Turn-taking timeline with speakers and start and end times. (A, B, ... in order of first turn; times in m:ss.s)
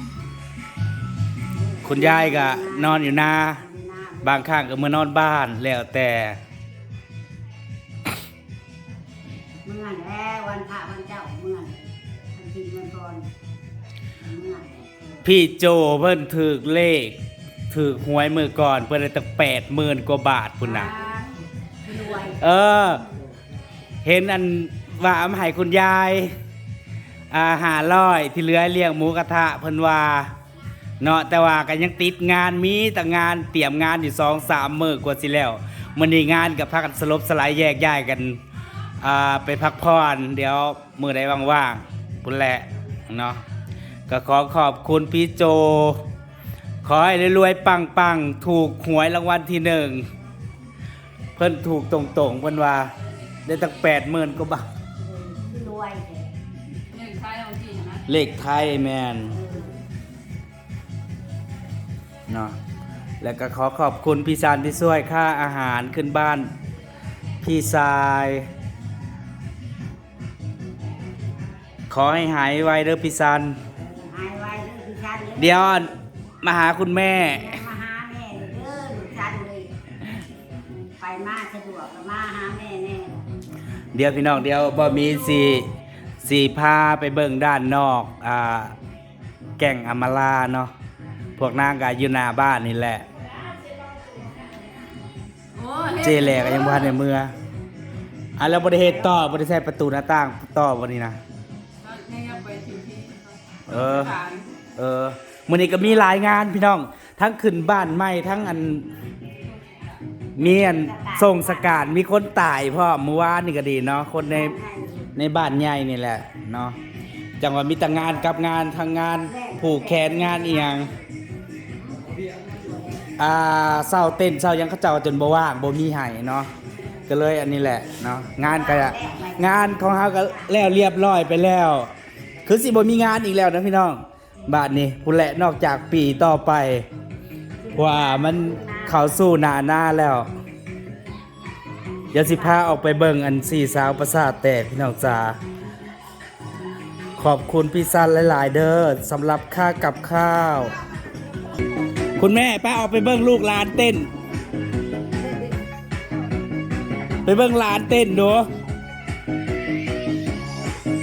0:01.5-0:04.4 A
0:01.8-0:03.6 B
0:04.2-0:06.4 B
0:09.6-0:13.3 A
0:14.2-0:14.8 A
0:15.2-0:17.2 B
0:17.7-0:20.9 B
0:20.6-0:21.3 A
0:21.8-0:22.4 A
0:22.4-0:23.0 B
0:24.0-0:26.3 B
0:27.3-0:30.3 B
0:31.0-0:38.4 B
0:39.0-0:43.4 B
0:44.1-0:46.0 B
0:46.8-0:50.0 B
0:51.4-0:52.9 B
0:53.4-0:54.6 B
0:55.0-0:56.3 A
0:56.9-0:58.0 C
0:58.1-0:59.3 B
0:59.3-0:59.7 A
1:02.3-1:02.5 B
1:03.2-1:06.5 B
1:07.4-1:08.5 B
1:11.9-1:13.6 B
1:13.9-1:15.8 A
1:15.4-1:15.9 B
1:16.4-1:17.5 B
1:17.3-1:19.7 A
1:21.0-1:23.2 A
1:23.9-1:25.7 B
1:26.2-1:28.7 B
1:29.6-1:30.7 B
1:31.4-1:33.0 B
1:35.6-1:36.9 C
1:36.0-1:37.3 B
1:38.4-1:41.2 B
1:41.8-1:44.4 C
1:43.7-1:44.2 B
1:44.8-1:48.9 B
1:50.4-1:54.6 B
1:50.4-1:51.9 A
1:54.3-1:55.1 A
1:55.1-1:56.8 B
1:57.4-2:00.9 B
1:59.3-2:00.8 A
2:03.2-2:06.5 B
2:07.1-2:11.9 B
2:08.4-2:10.5 A
2:12.4-2:16.8 B
2:17.6-2:19.2 A
2:17.7-2:20.3 B
2:22.1-2:25.4 B
2:27.2-2:30.7 B
2:32.2-2:34.1 B
2:37.2-2:38.5 B